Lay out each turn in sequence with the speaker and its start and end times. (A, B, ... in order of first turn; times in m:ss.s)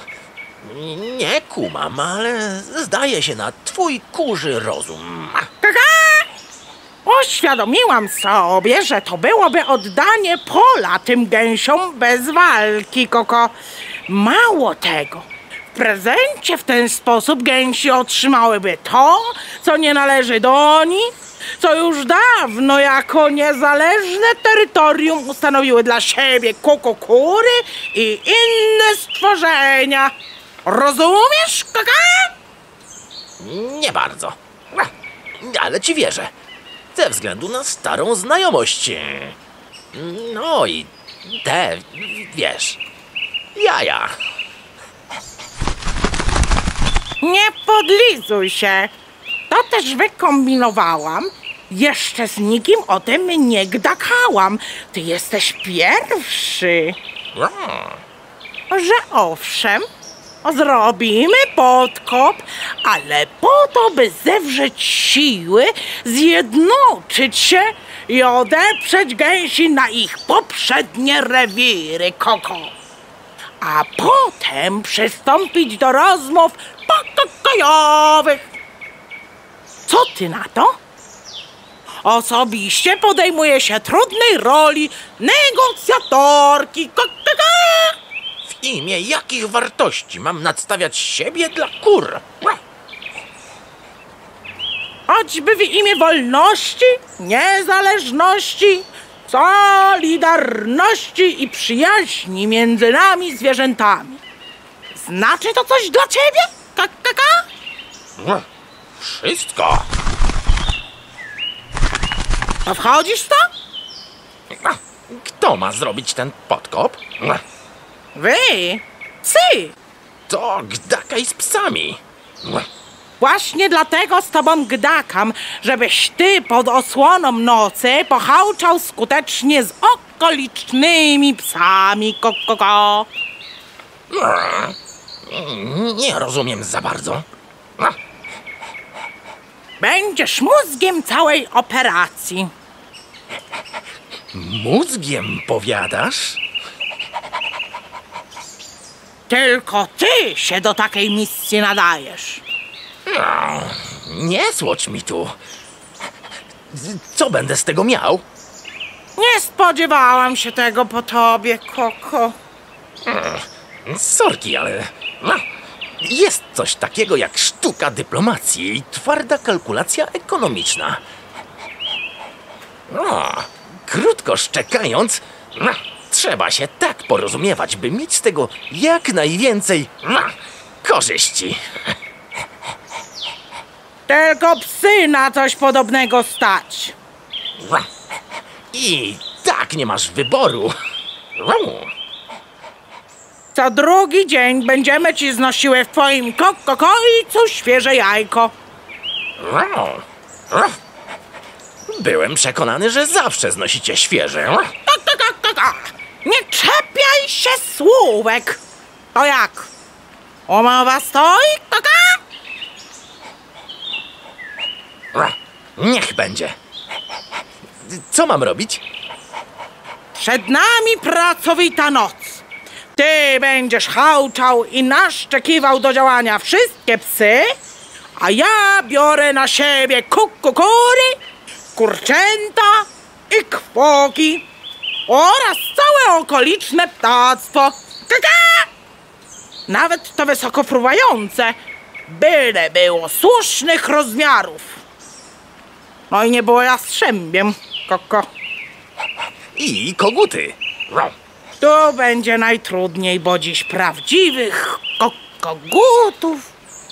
0:00.6-0:05.5 A
0:05.6-0:06.3 B
0:07.0-0:13.5 B
0:14.1-0:30.1 B
0:30.6-0:32.3 B
0:33.4-0:36.3 A
0:36.9-0:39.4 A
0:39.9-0:42.8 A
0:43.6-0:44.1 A
0:47.2-0:48.9 B
0:49.5-0:57.0 B
0:57.3-0:58.0 A
0:58.7-0:59.9 B
1:00.4-1:12.7 B
1:13.6-1:18.4 B
1:19.9-1:20.8 B
1:22.0-1:28.0 B
1:28.5-1:32.6 A
1:35.1-1:44.2 B
1:44.9-1:47.4 B
1:48.2-1:48.4 A
1:49.0-1:49.9 A
1:52.7-1:53.5 B
1:54.5-1:57.4 A
1:58.2-1:59.7 B
2:00.3-2:02.7 A
2:03.2-2:13.1 B
2:14.1-2:17.3 A
2:19.8-2:22.5 B
2:24.3-2:26.4 A
2:29.3-2:32.4 B
2:33.1-2:35.4 A
2:36.7-2:38.2 A
2:39.2-2:42.4 B
2:43.0-2:45.4 A
2:46.0-2:51.0 A
2:52.9-3:01.6 A
3:04.1-3:07.0 B
3:07.6-3:07.9 A
3:08.7-3:10.7 A
3:11.4-3:11.9 A
3:13.5-3:18.5 B
3:19.4-3:20.8 A
3:21.9-3:24.7 A
3:24.9-3:28.6 B
3:29.2-3:29.7 B
3:30.5-3:32.2 B
3:35.1-3:36.6 A
3:37.8-3:38.8 A
3:40.2-3:42.4 B
3:43.0-3:47.5 B
3:48.2-3:51.2 B
3:51.8-3:54.4 B
3:55.1-3:58.7 B
3:59.7-4:04.8 B
4:06.1-4:08.3 B
4:09.6-4:11.1 A
4:11.6-4:16.5 B